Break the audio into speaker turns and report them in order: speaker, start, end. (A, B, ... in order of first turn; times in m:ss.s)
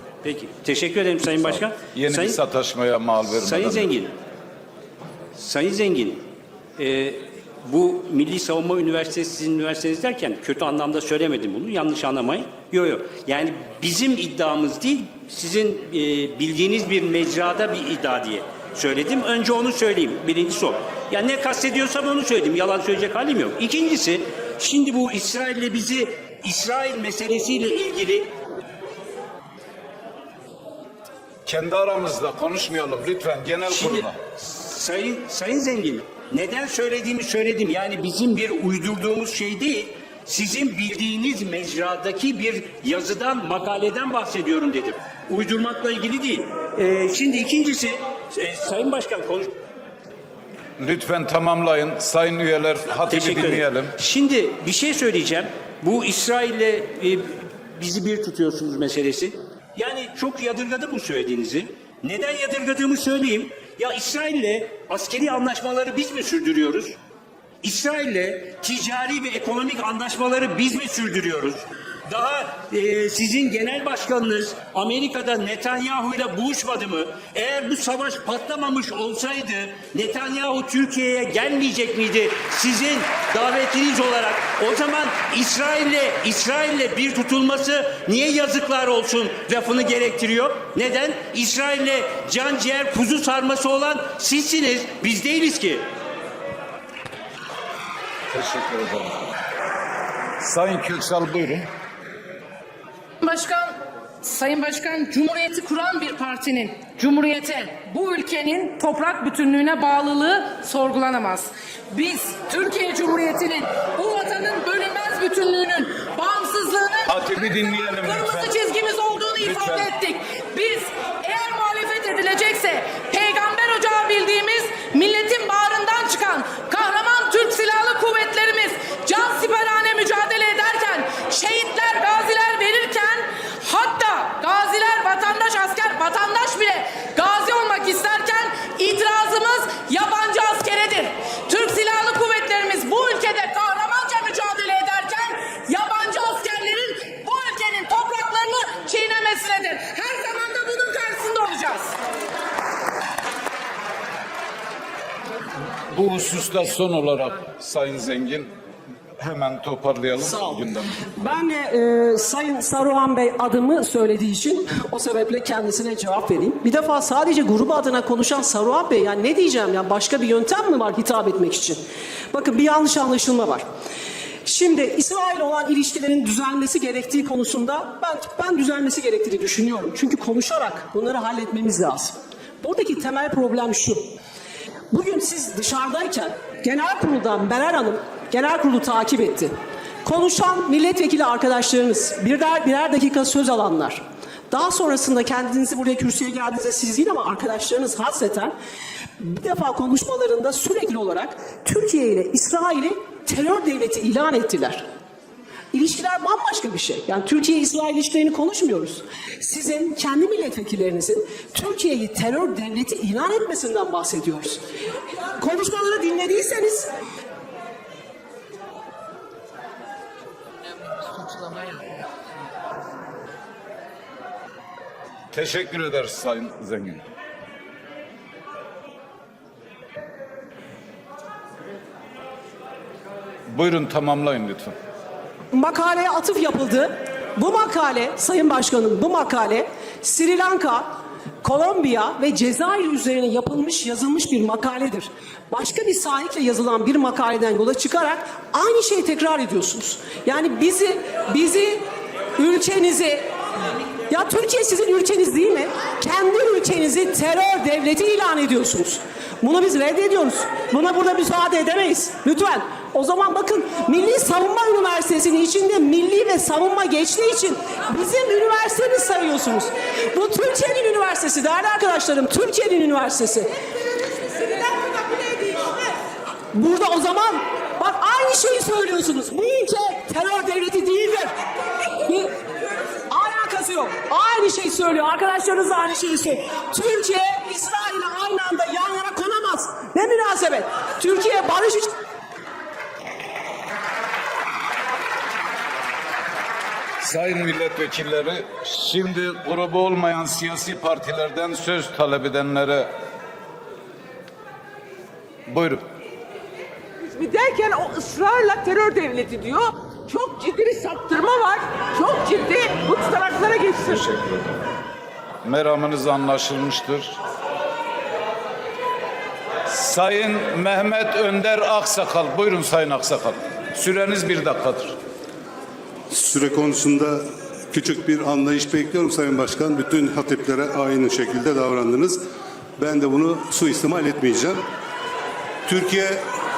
0:00.2-0:02.4 A
0:01.9-0:03.9 B
0:03.4-0:04.1 A
0:05.4-0:06.2 A
0:06.8-0:28.3 A
0:31.4-0:34.2 B
0:33.7-0:49.5 A
0:50.8-0:53.9 B
0:53.0-1:07.0 A
1:07.6-1:35.8 A
1:38.3-1:39.2 B
1:40.4-1:41.6 B
1:43.2-1:57.1 C
1:57.1-1:58.5 B
1:58.0-2:31.9 C
1:59.4-1:59.9 B
2:35.9-2:38.5 B
2:39.2-2:41.1 B
2:40.2-2:53.6 D
2:54.4-3:04.0 D
3:04.9-3:18.5 D
3:19.2-3:24.8 D
3:25.7-3:34.6 D
3:35.2-3:36.9 D
3:45.3-3:47.0 B
3:53.5-3:54.7 B
3:55.5-4:11.8 D
4:12.4-4:13.3 D
4:14.1-4:33.5 D
4:34.3-4:35.8 D
4:36.5-4:41.3 D
4:42.0-4:42.3 D
4:43.1-4:51.9 D
4:57.0-5:02.9 B
5:05.5-5:05.8 B
5:07.0-5:14.1 E
5:13.8-5:14.6 B
5:15.4-5:17.2 B
5:19.7-5:25.0 B
5:26.1-5:32.2 F
5:32.8-5:34.6 F
5:35.6-5:36.2 F